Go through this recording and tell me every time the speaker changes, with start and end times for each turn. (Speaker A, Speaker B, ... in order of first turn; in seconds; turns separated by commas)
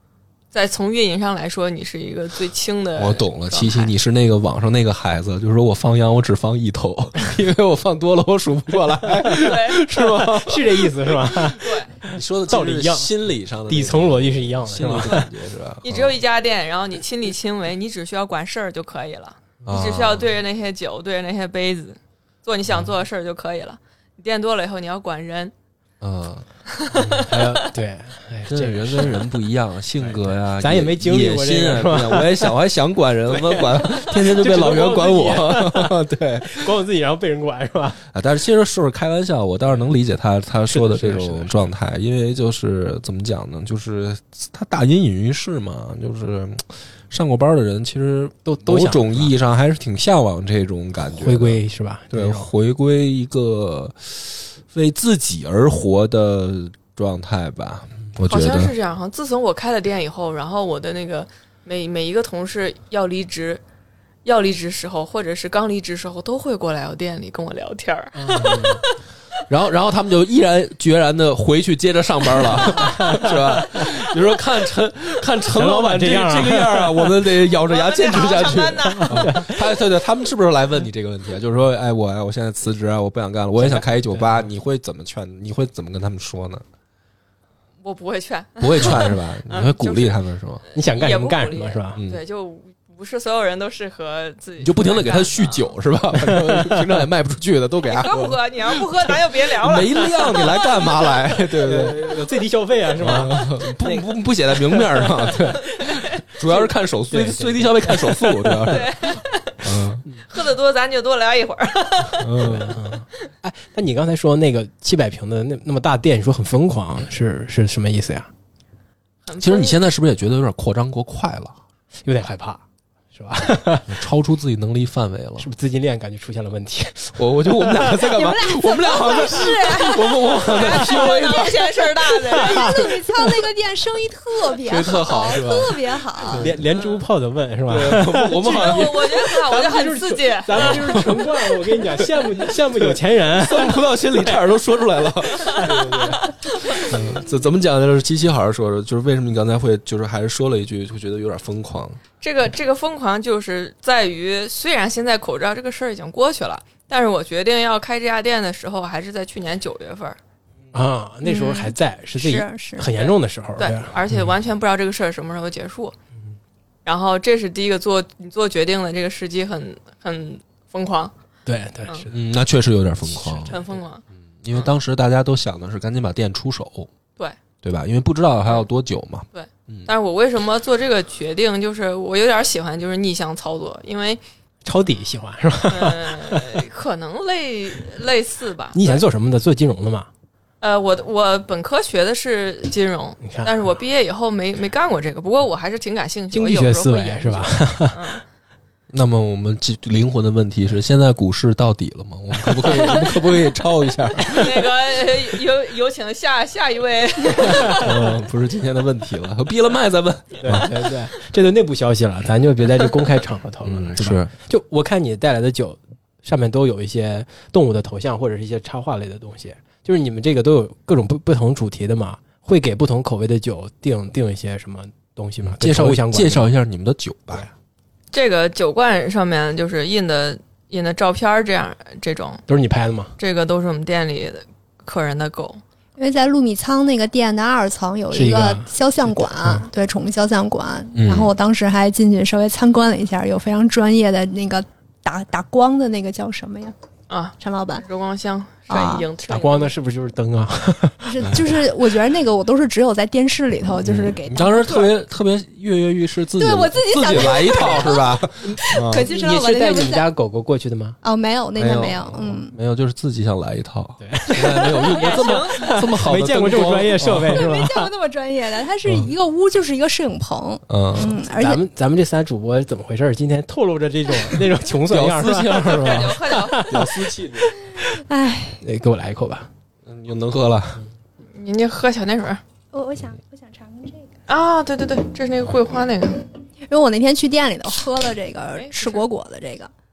Speaker A: 0.5-3.9, Speaker B: 3.0-11.5, Speaker A: 9.4-9.8, Speaker C: 9.9-13.1, Speaker A: 11.6-11.9, Speaker B: 12.1-16.2, Speaker C: 13.7-15.3, Speaker A: 15.8-25.5, Speaker B: 19.7-20.3, Speaker B: 26.0-26.5, Speaker A: 26.7-27.7, Speaker C: 26.9-29.3, Speaker B: 28.5-36.7, Speaker C: 30.0-32.5, Speaker C: 33.3-38.0, Speaker B: 38.1-51.6, Speaker C: 40.7-41.7, Speaker C: 48.5-49.3, Speaker C: 51.1-52.5, Speaker B: 52.1-58.7, Speaker A: 58.3-63.6, Speaker A: 64.2-69.0, Speaker C: 68.2-68.8, Speaker B: 68.4-68.8, Speaker B: 69.5-86.6, Speaker C: 72.5-73.8, Speaker C: 75.5-77.1, Speaker A: 77.7-79.5, Speaker C: 78.9-79.5, Speaker C: 83.6-84.5, Speaker A: 87.8-90.2, Speaker B: 88.6-90.6, Speaker C: 90.7-92.0, Speaker A: 90.7-95.7, Speaker B: 91.9-92.2, Speaker B: 94.6-98.4, Speaker C: 96.2-96.9, Speaker A: 97.8-101.4, Speaker B: 99.6-102.2, Speaker C: 101.6-105.6, Speaker B: 103.0-109.0, Speaker C: 106.5-108.8, Speaker A: 108.7-112.6, Speaker B: 109.6-110.0, Speaker B: 112.2-112.8, Speaker C: 112.4-118.3, Speaker A: 119.3-119.8, Speaker B: 119.4-121.5, Speaker C: 122.0-122.6, Speaker C: 123.1-124.0, Speaker B: 123.9-125.5, Speaker C: 125.4-128.1, Speaker B: 127.2-131.6, Speaker D: 127.9-130.7, Speaker A: 130.3-133.0, Speaker C: 130.6-131.3, Speaker C: 132.3-133.2, Speaker D: 132.3-136.6, Speaker B: 134.6-135.8, Speaker C: 136.3-144.4, Speaker A: 136.6-137.0, Speaker B: 137.7-139.1, Speaker A: 138.3-141.1, Speaker B: 140.6-146.1, Speaker C: 145.4-146.3, Speaker A: 146.2-146.9, Speaker B: 146.8-152.0, Speaker A: 152.2-160.2, Speaker C: 160.7-164.0, Speaker D: 161.2-163.0, Speaker A: 163.0-165.9, Speaker A: 166.8-171.1, Speaker C: 171.5-172.2, Speaker B: 172.1-173.6, Speaker C: 173.1-173.6, Speaker A: 173.5-174.0, Speaker B: 174.4-176.9, Speaker B: 177.6-179.9, Speaker A: 179.3-184.2, Speaker C: 184.7-186.6, Speaker A: 185.7-189.0, Speaker C: 188.7-190.1, Speaker A: 190.6-198.2, Speaker C: 193.2-193.6, Speaker C: 196.3-198.1, Speaker B: 198.9-204.7, Speaker C: 202.5-203.1, Speaker A: 204.3-208.0, Speaker B: 207.7-210.9, Speaker C: 210.4-226.4, Speaker B: 213.6-214.3, Speaker B: 225.4-227.5, Speaker A: 228.1-232.4, Speaker C: 232.5-233.1, Speaker A: 233.2-235.6, Speaker D: 236.0-246.7, Speaker C: 238.1-239.7, Speaker B: 240.9-241.3, Speaker A: 247.1-249.7, Speaker D: 247.4-247.8, Speaker D: 248.7-249.1, Speaker C: 249.3-251.6, Speaker D: 251.0-254.9, Speaker B: 253.8-259.1, Speaker D: 256.4-260.1, Speaker C: 257.5-257.9, Speaker C: 258.4-261.0, Speaker D: 261.0-262.5, Speaker B: 261.6-267.4, Speaker C: 264.0-267.9, Speaker D: 264.5-264.8, Speaker A: 264.9-265.8, Speaker D: 267.3-271.6, Speaker B: 270.7-271.2, Speaker C: 271.2-277.7, Speaker B: 274.4-277.5, Speaker A: 275.7-276.8, Speaker D: 277.8-278.6, Speaker C: 278.6-279.5, Speaker B: 279.9-280.9, Speaker A: 281.3-282.4, Speaker D: 282.7-284.1, Speaker A: 284.3-286.3, Speaker D: 286.7-289.7, Speaker A: 288.6-289.0